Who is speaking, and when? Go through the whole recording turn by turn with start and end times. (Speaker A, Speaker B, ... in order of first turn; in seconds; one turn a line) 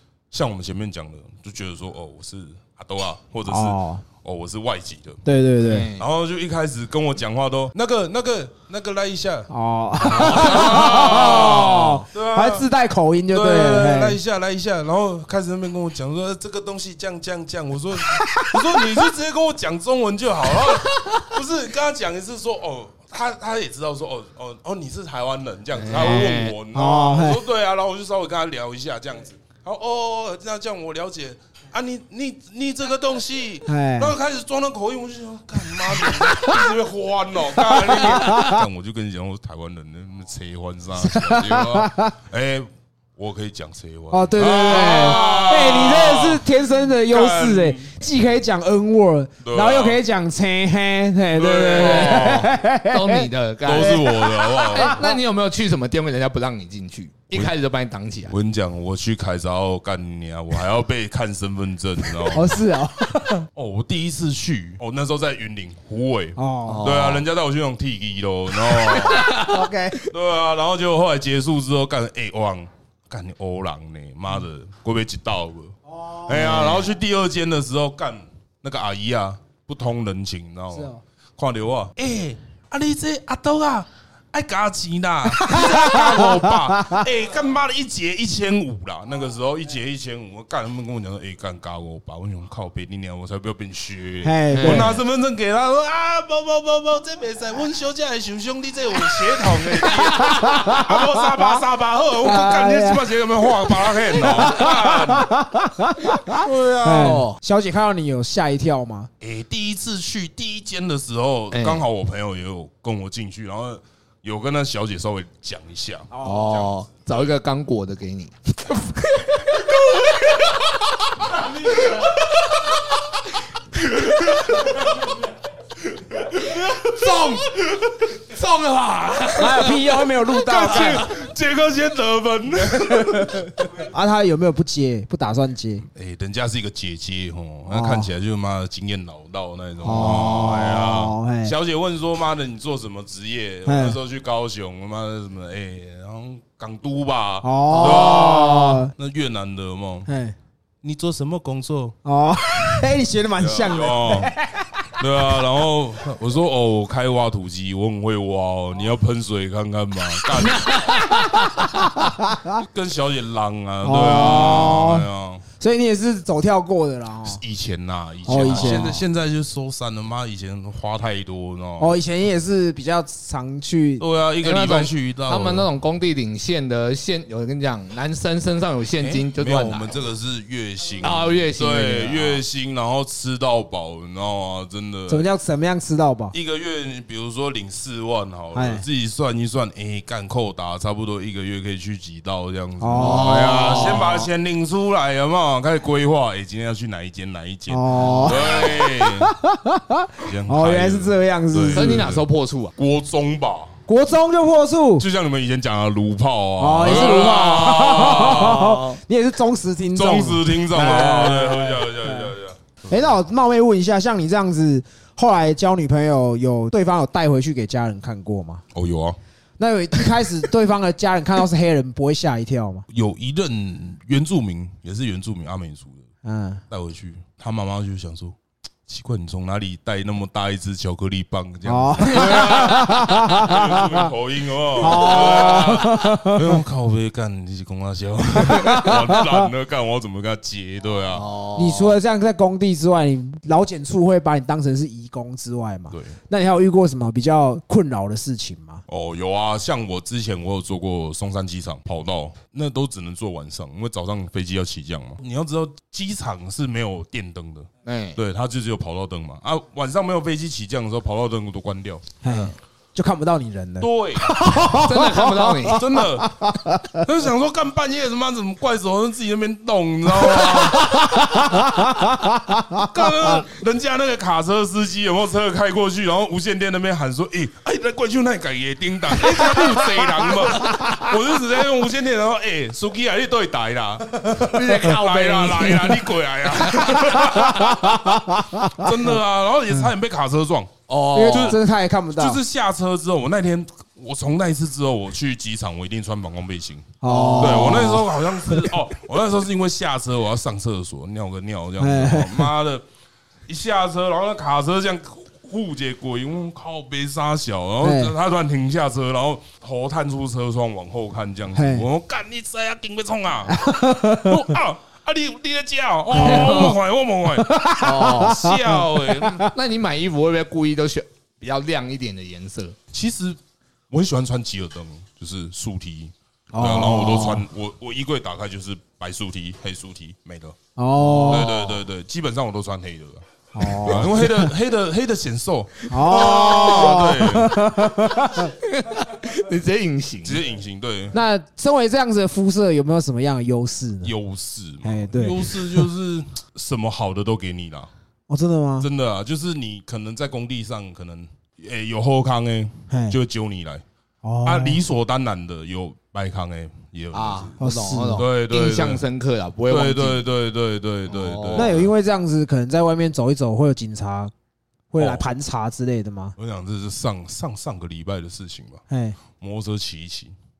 Speaker A: 0.3-5.2
Speaker B: 3.5-4.0
Speaker B: 5.2-5.9
Speaker C: 5.6-6.0
Speaker A: 5.9-9.5
Speaker B: 9.5-14.2
Speaker A: 10.0-12.7
Speaker C: 10.1-11.0
Speaker A: 13.3-47.9
Speaker B: 18.1-19.0
Speaker C: 25.8-26.6
Speaker B: 26.7-27.4
Speaker B: 33.6-34.1
Speaker B: 35.9-36.7
Speaker B: 37.5-38.6
Speaker B: 41.0-42.1
Speaker B: 44.1-55.2
Speaker C: 44.6-45.5
Speaker A: 49.4-50.0
Speaker A: 51.4-52.5
Speaker C: 51.7-58.3
Speaker A: 53.6-55.0
Speaker A: 58.3-62.5
Speaker B: 62.3-63.5
Speaker A: 63.5-69.4
Speaker B: 66.3-67.0
Speaker C: 66.7-67.2
Speaker C: 68.8-69.5
Speaker B: 69.2-70.1
Speaker A: 70.1-105.3
Speaker B: 75.9-76.9
Speaker C: 76.5-76.8
Speaker B: 80.7-81.0
Speaker B: 85.3-87.0
Speaker B: 94.2-95.0
Speaker C: 94.5-95.0
Speaker B: 100.1-101.6
Speaker B: 102.2-103.1
Speaker B: 103.7-109.1
Speaker A: 106.2-107.2
Speaker C: 106.8-107.4
Speaker A: 109.2-116.7
Speaker C: 111.5-111.8
Speaker B: 116.1-116.5
Speaker C: 116.2-120.8
Speaker A: 121.8-122.8
Speaker A: 123.7-125.1
Speaker A: 125.8-128.4
Speaker C: 127.0-127.4
Speaker C: 128.3-129.7
Speaker B: 129.3-131.1
Speaker A: 129.4-133.9
Speaker B: 132.9-135.8
Speaker A: 135.9-150.1
Speaker B: 137.7-138.1
Speaker B: 139.8-141.5
Speaker C: 139.9-140.4
Speaker B: 143.7-144.0
Speaker B: 147.4-148.9
Speaker C: 147.7-148.8
Speaker B: 150.1-150.3
Speaker A: 150.8-151.9
Speaker B: 152.0-155.0
Speaker A: 153.3-154.3
Speaker A: 154.9-161.0
Speaker C: 160.3-161.6
Speaker B: 160.7-162.6
Speaker A: 162.5-165.4
Speaker B: 163.8-165.1
Speaker B: 165.6-167.4
Speaker A: 167.2-172.0
Speaker B: 168.2-169.0
Speaker C: 168.3-169.0
Speaker B: 171.8-174.0
Speaker A: 174.0-175.7
Speaker C: 174.4-180.0
Speaker A: 179.0-185.2
Speaker C: 181.0-182.4
Speaker B: 185.1-186.3
Speaker A: 186.3-199.3
Speaker B: 188.5-188.8
Speaker B: 192.8-193.9
Speaker C: 192.9-194.3
Speaker B: 197.7-202.0
Speaker C: 197.9-198.8
Speaker A: 200.2-202.2
Speaker C: 201.7-202.7
Speaker A: 202.8-203.8
Speaker B: 203.9-205.0
Speaker A: 205.0-208.8
Speaker B: 206.6-212.3
Speaker C: 206.8-209.0
Speaker A: 209.9-212.8
Speaker B: 212.9-218.6
Speaker A: 218.7-219.2
Speaker B: 219.6-222.8
Speaker A: 222.9-226.1
Speaker B: 226.2-226.6
Speaker A: 226.7-241.3
Speaker B: 231.6-234.1
Speaker C: 232.1-232.5
Speaker B: 234.8-236.6
Speaker B: 238.3-239.5
Speaker C: 241.1-242.0
Speaker B: 241.5-248.8
Speaker A: 245.9-246.2
Speaker A: 248.9-262.2
Speaker C: 257.8-258.2
Speaker B: 262.2-267.0
Speaker A: 263.8-264.4
Speaker C: 264.7-265.8
Speaker A: 265.7-266.4
Speaker A: 266.9-272.1
Speaker B: 270.2-273.4
Speaker A: 272.7-290.7
Speaker B: 279.3-281.1
Speaker C: 284.3-286.1
Speaker B: 284.4-284.8
Speaker B: 286.6-289.0
Speaker C: 290.9-291.6
Speaker B: 291.1-292.4
Speaker A: 291.3-291.6
Speaker A: 292.1-302.8
Speaker B: 297.0-298.7
Speaker C: 297.0-298.0
Speaker B: 301.8-302.5
Speaker A: 303.5-319.4
Speaker B: 307.8-308.1
Speaker B: 311.5-311.9
Speaker B: 313.5-314.5
Speaker B: 316.1-316.7
Speaker C: 316.2-316.7
Speaker B: 317.4-319.5
Speaker C: 317.8-318.6
Speaker C: 319.1-322.8
Speaker A: 322.9-323.4
Speaker A: 323.9-330.6
Speaker B: 326.5-327.4
Speaker C: 327.0-327.4
Speaker B: 330.8-331.5
Speaker C: 331.0-331.8
Speaker A: 331.3-337.6
Speaker B: 333.5-334.5
Speaker B: 335.9-338.5
Speaker C: 336.1-337.1
Speaker C: 338.6-340.4
Speaker A: 340.2-341.1
Speaker B: 341.1-344.1
Speaker A: 344.0-347.9
Speaker B: 344.8-345.9
Speaker B: 348.3-348.9
Speaker A: 348.8-353.8
Speaker B: 352.9-353.2
Speaker B: 354.2-354.8
Speaker A: 354.4-357.6
Speaker C: 357.1-360.2
Speaker B: 357.6-358.2
Speaker A: 358.1-359.0
Speaker A: 359.7-361.9
Speaker C: 361.1-361.8
Speaker B: 361.5-364.3
Speaker B: 364.9-366.4
Speaker A: 365.0-365.3
Speaker A: 366.4-368.8
Speaker B: 368.9-369.2
Speaker A: 369.4-370.3